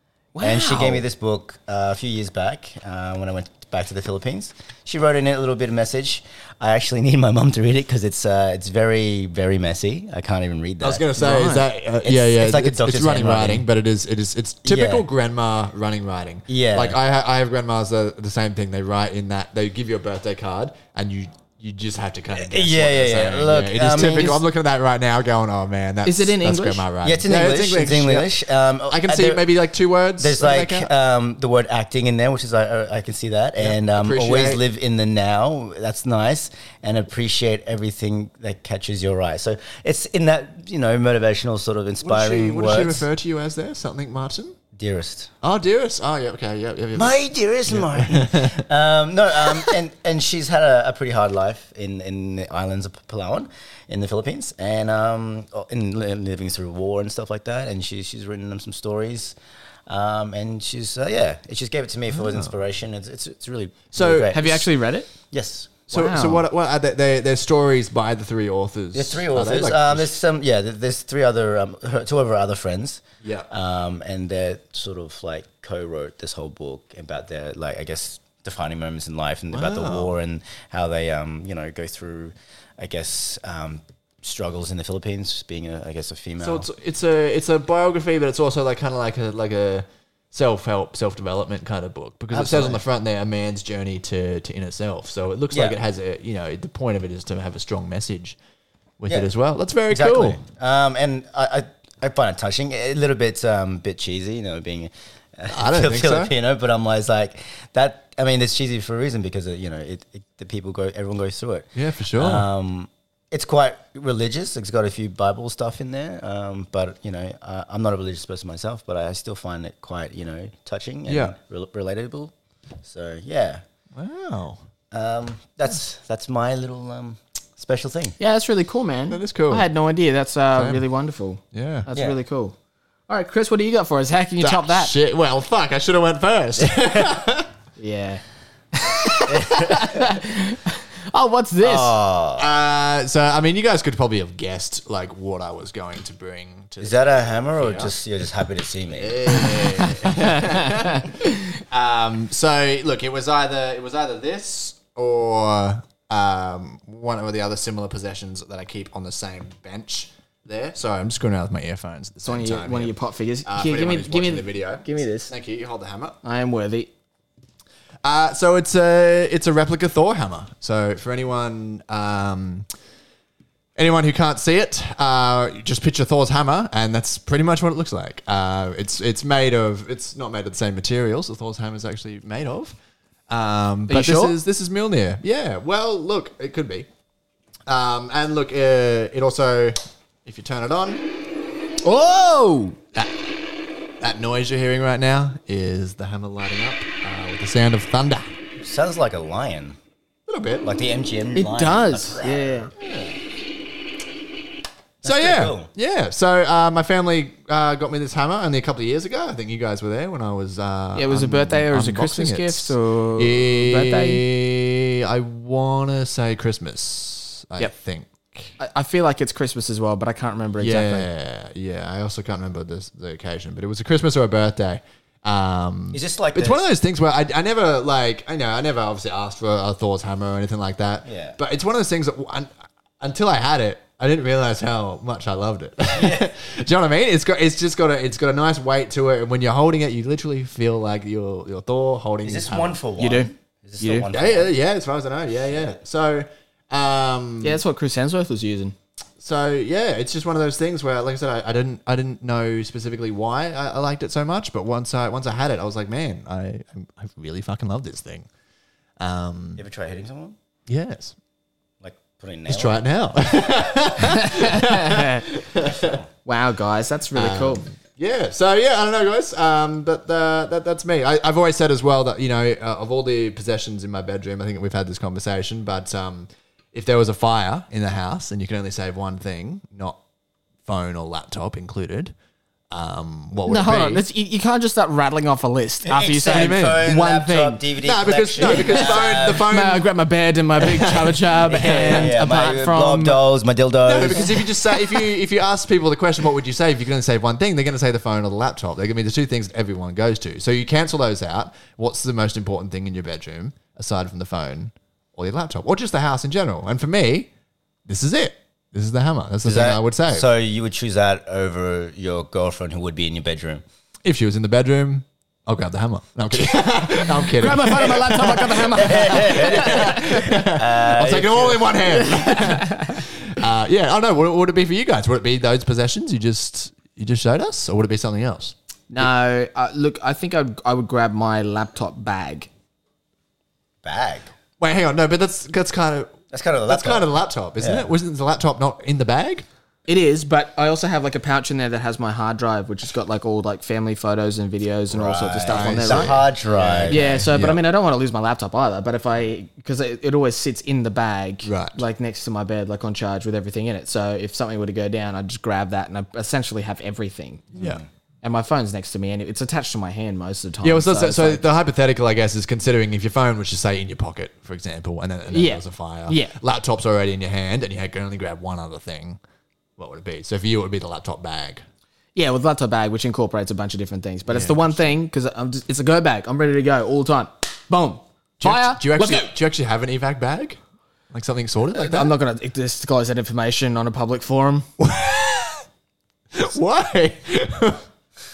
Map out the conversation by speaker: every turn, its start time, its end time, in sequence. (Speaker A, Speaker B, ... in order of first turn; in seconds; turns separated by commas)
Speaker A: 0.3-1.0, Speaker B: 0.4-11.2, Speaker C: 10.8-28.3, Speaker A: 11.2-11.7, Speaker B: 12.0-13.7, Speaker B: 14.7-15.1, Speaker B: 16.5-17.0, Speaker B: 22.3-24.4, Speaker A: 26.1-26.9, Speaker B: 27.0-29.5, Speaker C: 28.9-30.9, Speaker B: 30.2-43.1, Speaker C: 33.6-34.6, Speaker C: 42.0-44.6, Speaker B: 44.7-45.3, Speaker C: 45.4-48.6, Speaker B: 47.0-59.4, Speaker B: 59.9-64.6, Speaker C: 62.2-62.5, Speaker C: 63.9-64.5, Speaker A: 64.3-65.1, Speaker B: 65.3-65.8, Speaker C: 65.9-70.1, Speaker A: 65.9-66.4, Speaker B: 68.9-86.7, Speaker C: 79.5-80.1, Speaker C: 86.4-98.4, Speaker B: 92.3-92.8, Speaker B: 95.5-95.8, Speaker C: 99.0-100.4, Speaker B: 99.9-123.6, Speaker C: 105.5-106.3, Speaker C: 111.8-112.5, Speaker C: 121.1-121.3, Speaker C: 124.0-124.6, Speaker B: 124.9-128.2, Speaker A: 128.2-132.6, Speaker C: 129.1-129.7, Speaker C: 130.6-130.8, Speaker C: 131.5-131.9, Speaker A: 133.1-134.9, Speaker C: 134.4-137.5, Speaker B: 136.6-137.1, Speaker A: 137.8-138.2, Speaker A: 138.7-141.9, Speaker B: 139.3-140.1, Speaker B: 141.6-142.5, Speaker C: 142.4-147.9, Speaker B: 146.8-149.3, Speaker C: 148.9-162.9, Speaker A: 150.1-151.3, Speaker A: 162.2-165.3, Speaker C: 163.5-166.2, Speaker A: 166.2-166.9, Speaker C: 168.0-172.7, Speaker C: 173.8-182.8, Speaker C: 183.3-186.9, Speaker A: 183.9-184.4, Speaker C: 187.7-191.0, Speaker A: 191.8-192.8, Speaker C: 194.0-198.3, Speaker B: 198.6-199.8, Speaker C: 200.3-200.7, Speaker B: 200.6-202.7, Speaker A: 201.3-202.7, Speaker C: 202.8-203.2, Speaker B: 205.0-205.7, Speaker C: 205.0-218.5, Speaker A: 210.9-214.2, Speaker A: 218.6-221.1, Speaker C: 220.6-232.5, Speaker B: 225.9-226.6, Speaker B: 231.1-231.4, Speaker C: 233.0-242.8, Speaker B: 235.9-236.3, Speaker B: 242.2-244.5, Speaker A: 243.0-244.1, Speaker C: 244.1-247.6, Speaker A: 247.4-248.8, Speaker C: 249.2-258.3, Speaker C: 259.0-259.6, Speaker B: 259.6-260.4, Speaker C: 260.7-261.1, Speaker B: 261.8-262.8, Speaker C: 262.5-266.0, Speaker A: 264.1-265.2, Speaker B: 265.7-266.1, Speaker A: 266.2-267.6, Speaker C: 267.1-280.0, Speaker C: 280.7-282.1, Speaker C: 282.7-284.0, Speaker A: 283.5-287.6, Speaker B: 285.9-289.5, Speaker C: 286.3-286.9, Speaker C: 287.8-289.8, Speaker A: 288.4-293.2, Speaker C: 290.6-292.1, Speaker B: 291.5-294.5, Speaker C: 293.9-307.3, Speaker C: 307.9-310.3, Speaker B: 309.4-313.6, Speaker C: 314.1-329.1, Speaker A: 317.3-320.1, Speaker B: 318.7-322.0, Speaker A: 322.1-323.0, Speaker A: 328.9-332.5, Speaker B: 333.8-334.3, Speaker C: 334.6-339.4, Speaker B: 336.3-337.9, Speaker A: 339.9-346.2, Speaker B: 344.9-347.3, Speaker C: 345.5-347.6, Speaker A: 346.9-357.5, Speaker C: 351.4-351.8, Speaker C: 357.5-357.8, Speaker B: 357.6-357.9, Speaker A: 358.2-361.4, Speaker C: 360.6-369.2, Speaker A: 365.3-366.3, Speaker C: 369.8-371.6, Speaker A: 372.1-379.3, Speaker C: 374.3-374.9, Speaker C: 378.4-380.6, Speaker C: 381.1-382.1, Speaker A: 381.8-384.7, Speaker C: 384.8-385.6, Speaker C: 386.3-387.8